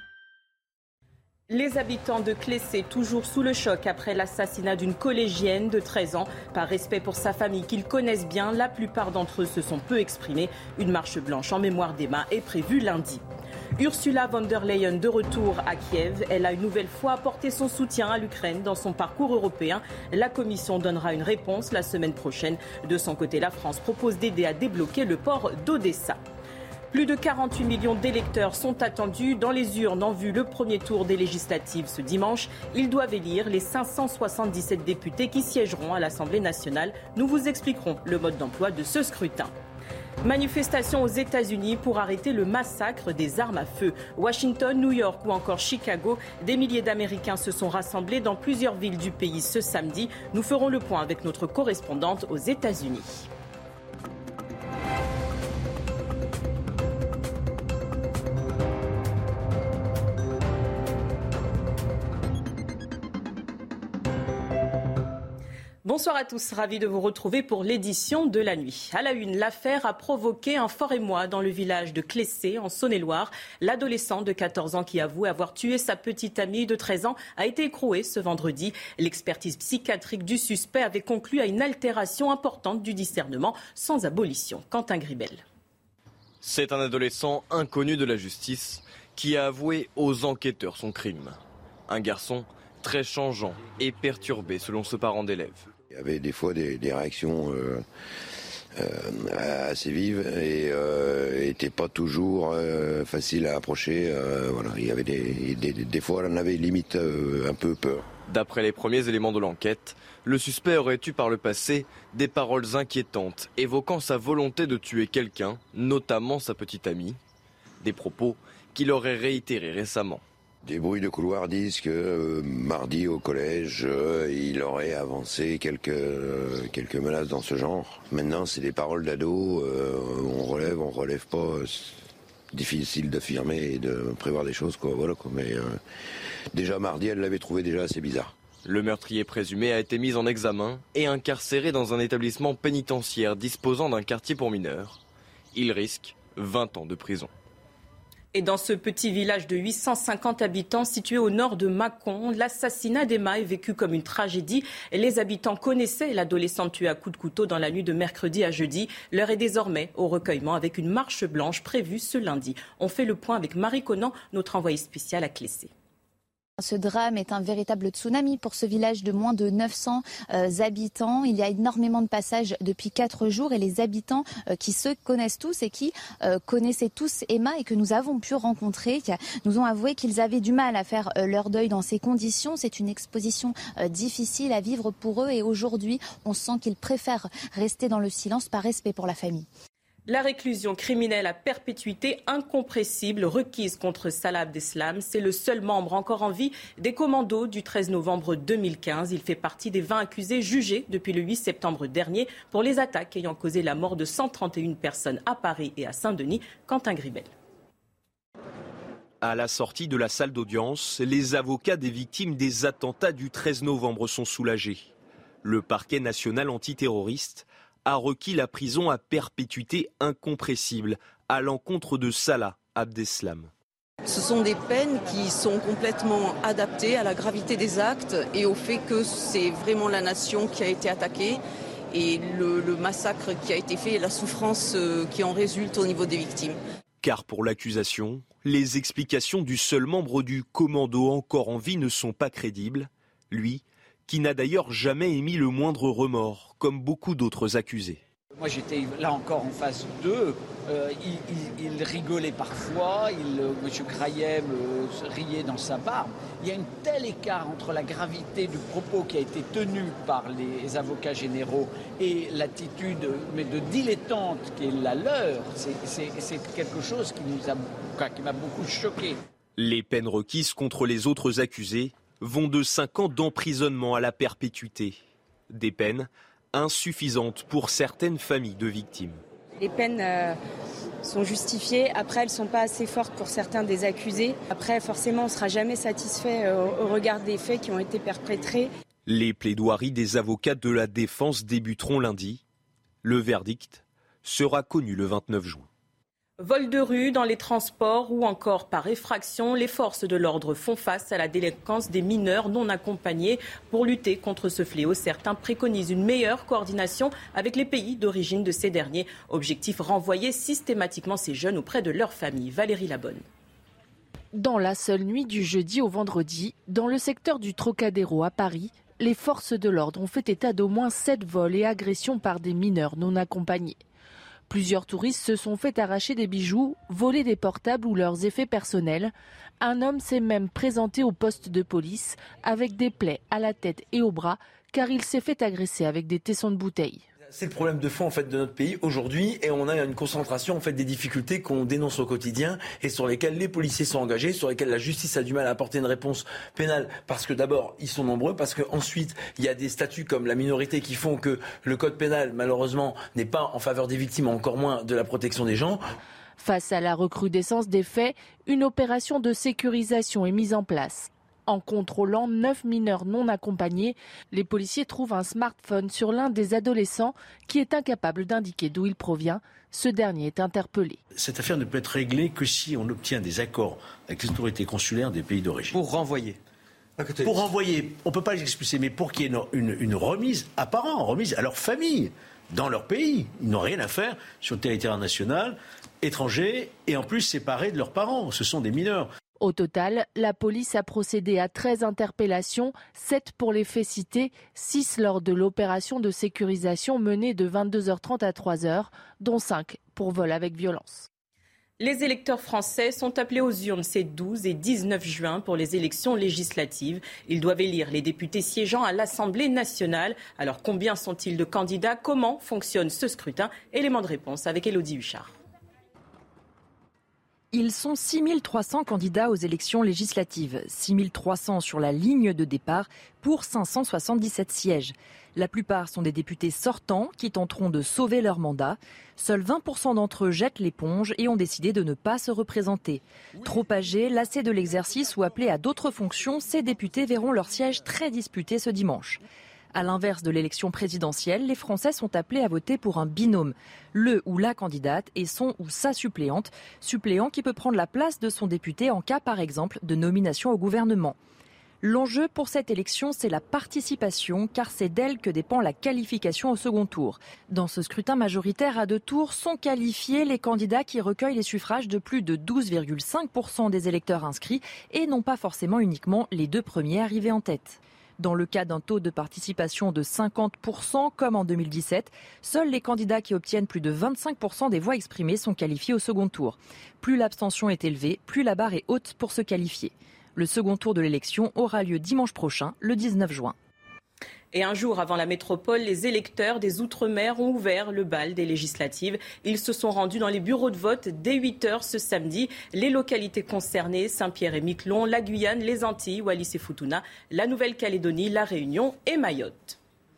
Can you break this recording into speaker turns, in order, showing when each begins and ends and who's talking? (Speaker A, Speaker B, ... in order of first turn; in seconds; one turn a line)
Speaker A: 1.5-13.2
Speaker A: 13.8-26.2
Speaker A: 26.9-39.5
Speaker A: 40.2-53.3
Speaker A: 65.8-85.4
Speaker B: 86.4-95.7
Speaker C: 95.9-97.8
Speaker C: 98.8-108.0
Speaker B: 108.3-117.2
Speaker B: 117.8-120.2
Speaker C: 120.6-135.8
Speaker C: 136.5-138.3
Speaker B: 138.6-145.0
Speaker B: 145.5-147.3
Speaker A: 148.3-165.7
Speaker D: 166.6-189.5
Speaker A: 190.1-207.3
Speaker E: 209.2-214.9
Speaker E: 215.4-223.5
Speaker F: 224.0-236.6
Speaker E: 237.0-248.0
Speaker G: 248.3-269.2
Speaker E: 269.6-274.9
Speaker E: 275.5-279.2
Speaker H: 279.6-280.4
Speaker H: 281.0-288.7
Speaker E: 289.1-292.4
Speaker E: 293.0-295.7
Speaker A: 296.4-313.2
Speaker I: 314.3-323.8
Speaker I: 324.5-337.0
Speaker J: 337.3-355.8
Speaker I: 356.4-371.0
Speaker K: 371.1-375.8
Speaker J: 377.0-377.4
Speaker K: 377.2-389.1
Speaker I: 389.4-401.1
Speaker A: 401.8-415.4
Speaker L: 417.5-439.2
Speaker L: 439.7-451.1
Speaker L: 451.8-483.5
Speaker A: 484.5-499.8